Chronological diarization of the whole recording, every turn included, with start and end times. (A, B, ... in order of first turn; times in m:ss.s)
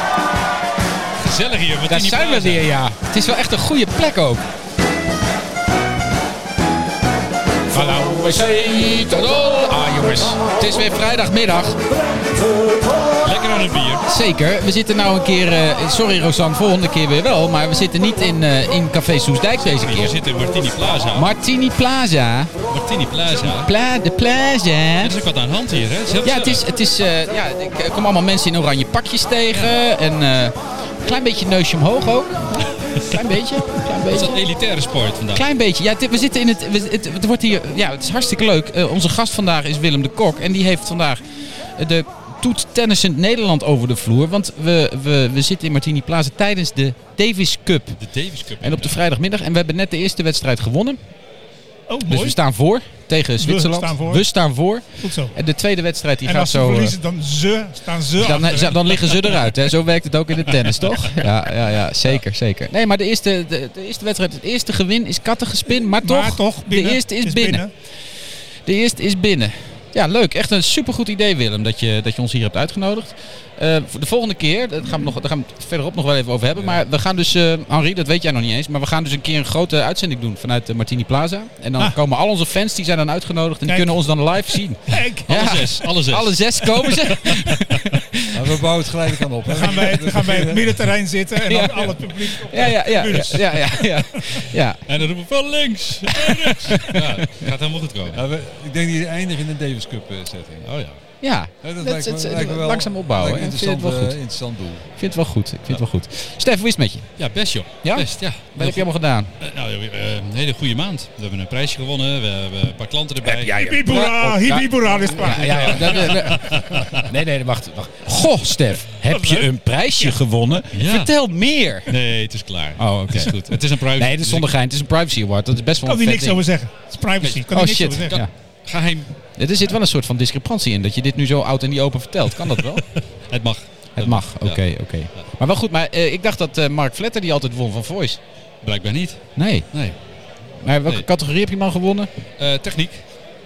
0:01.2-0:02.7 A
0:01.9-0:04.4 B
0:07.7-0:11.8 B
0:13.2-0:14.0 A
0:14.1-0:20.2 B
0:19.6-0:21.3 A
0:21.1-0:22.5 B
0:22.7-0:23.7 A
0:23.4-0:25.2 B
0:25.0-0:26.7 A
0:26.2-0:34.4 B
0:34.1-0:35.4 A
0:35.3-0:48.0 B
0:48.0-0:49.0 A
0:48.6-0:51.0 B
0:51.9-0:52.4 C
0:52.1-0:57.0 B
0:53.4-0:54.3 C
0:55.0-0:55.3 C
0:56.2-0:59.3 C
0:58.2-1:07.7 B
1:05.7-1:07.7 C
1:08.6-1:28.3 B
1:23.7-1:24.0 C
1:24.9-1:25.5 C
1:25.3-1:27.9 A
1:28.3-1:30.9 D
1:29.5-1:34.4 C
1:31.4-1:34.8 B
1:34.8-1:38.2 A
1:36.7-1:37.5 B
1:38.1-1:40.8 D
1:40.6-1:41.0 A
1:41.2-1:44.2 B
1:41.6-1:44.9 D
1:45.0-1:47.2 B
1:47.2-1:48.9 A
1:47.8-1:49.3 B
1:49.4-1:54.0 A
1:53.2-2:01.9 B
1:53.5-1:56.4 C
1:55.2-1:57.0 A
1:59.1-1:59.4 C
2:00.7-2:01.2 A
2:01.8-2:04.5 A
2:02.8-2:06.4 B
2:05.9-2:08.2 C
2:07.2-2:09.1 A
2:07.5-2:08.3 B
2:09.3-2:12.9 B
2:13.0-2:15.2 A
2:14.0-2:18.2 B
2:18.6-2:20.0 A
2:19.4-2:19.7 B
2:20.6-2:22.1 B
2:22.4-2:23.0 A